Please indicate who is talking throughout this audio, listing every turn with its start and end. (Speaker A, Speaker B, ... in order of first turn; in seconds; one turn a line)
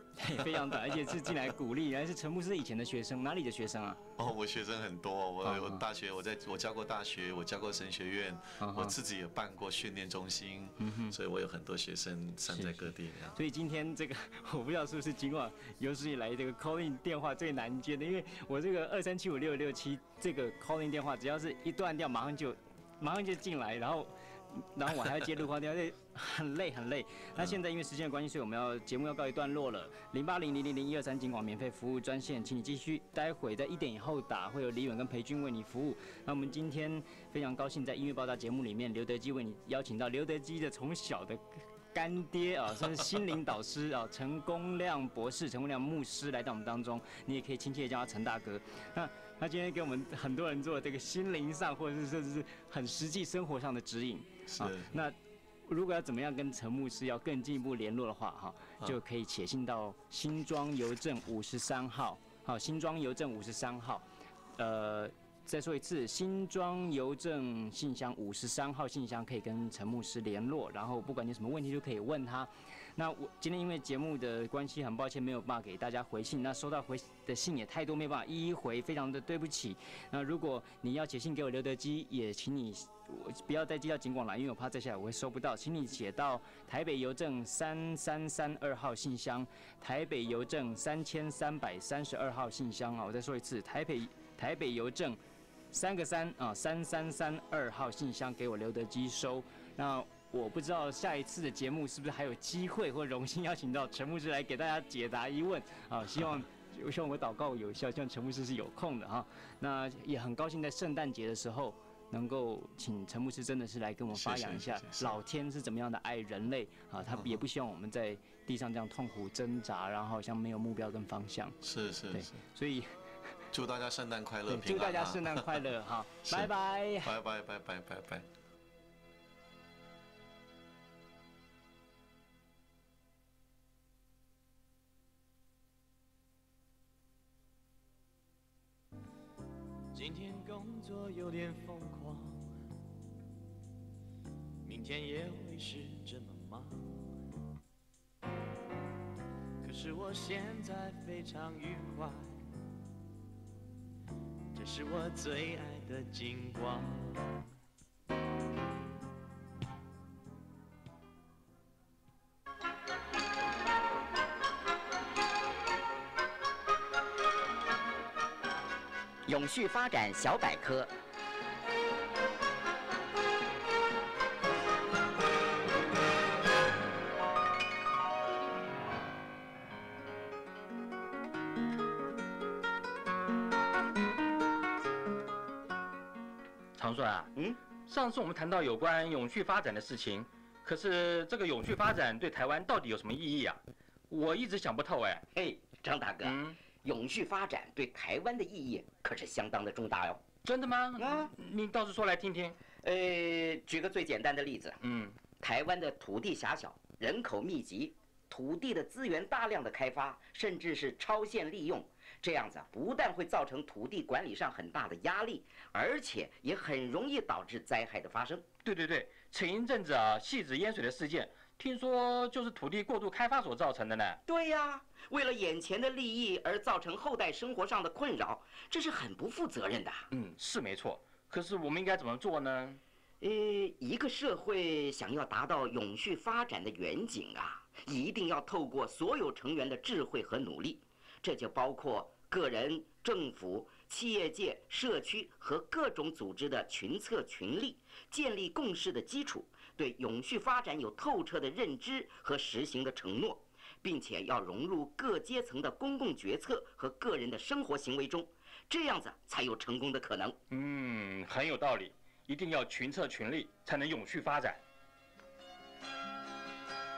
Speaker A: 0.2-4.0
Speaker B: 0.4-1.5
Speaker B: 4.2-13.4
Speaker A: 5.4-5.8
Speaker A: 8.6-8.9
Speaker A: 10.8-11.2
Speaker A: 12.5-55.1
Speaker B: 54.5-54.9
Speaker A: 55.7-64.0
Speaker A: 64.6-95.2
Speaker A: 95.7-121.6
Speaker B: 106.1-106.4
Speaker B: 114.1-115.2
Speaker B: 117.1-117.4
Speaker B: 121.6-122.4
Speaker A: 122.1-122.9
Speaker B: 123.5-125.6
Speaker A: 124.5-127.1
Speaker B: 126.3-126.5
Speaker B: 127.0-128.2
Speaker C: 139.9-142.6
Speaker C: 144.6-147.1
Speaker C: 149.6-152.5
Speaker C: 154.5-157.4
Speaker D: 169.2-170.9
Speaker E: 186.8-187.2
Speaker E: 187.9-193.5
Speaker E: 194.1-195.2
Speaker D: 195.3-200.3
Speaker E: 196.2-196.5
Speaker E: 200.5-202.5
Speaker D: 201.0-201.3
Speaker D: 202.8-204.8
Speaker D: 205.4-218.4
Speaker E: 218.7-224.1
Speaker D: 224.3-230.1
Speaker E: 230.1-232.7
Speaker D: 233.2-260.4
Speaker E: 260.5-264.5